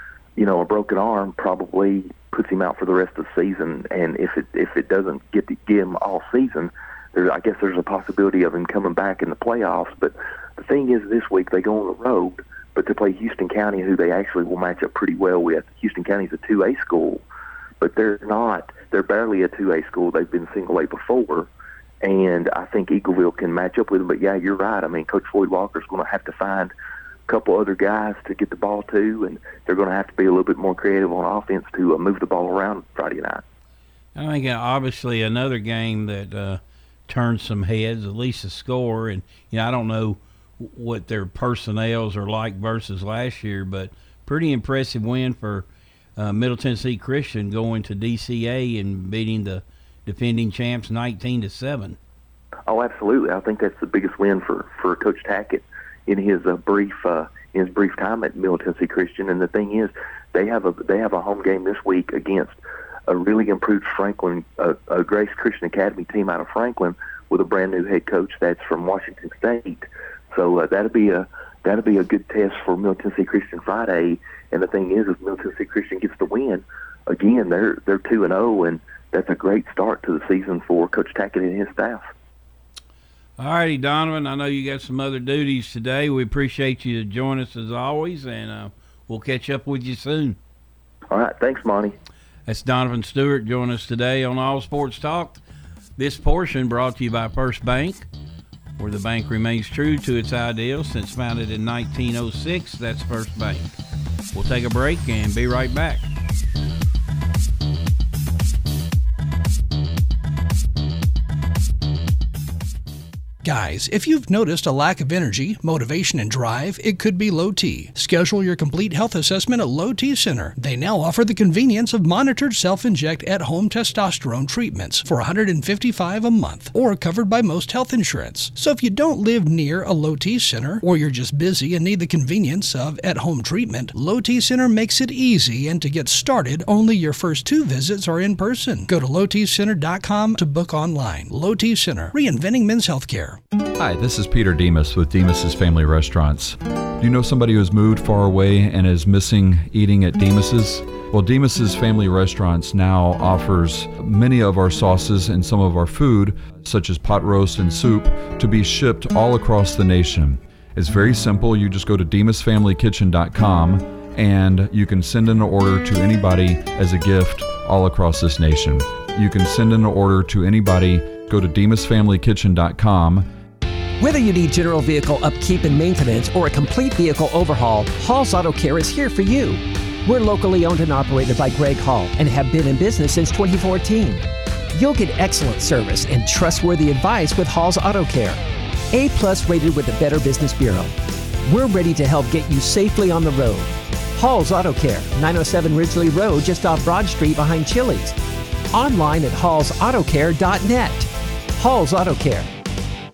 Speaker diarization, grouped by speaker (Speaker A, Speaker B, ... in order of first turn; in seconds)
Speaker A: 0.3-17.2, 17.8-21.5, 22.0-26.7, 27.3-33.4, 52.7-62.5, 63.1-82.1, 91.1-91.9
Speaker B: 34.1-45.6, 46.2-52.0, 83.4-90.4, 92.5-95.4, 96.0-98.0, 98.8-103.7, 104.3-106.0
Speaker C: 113.4-143.4
Speaker D: 143.8-173.3
Speaker E: 174.0-188.4, 188.9-190.9, 191.5-198.1, 198.7-202.5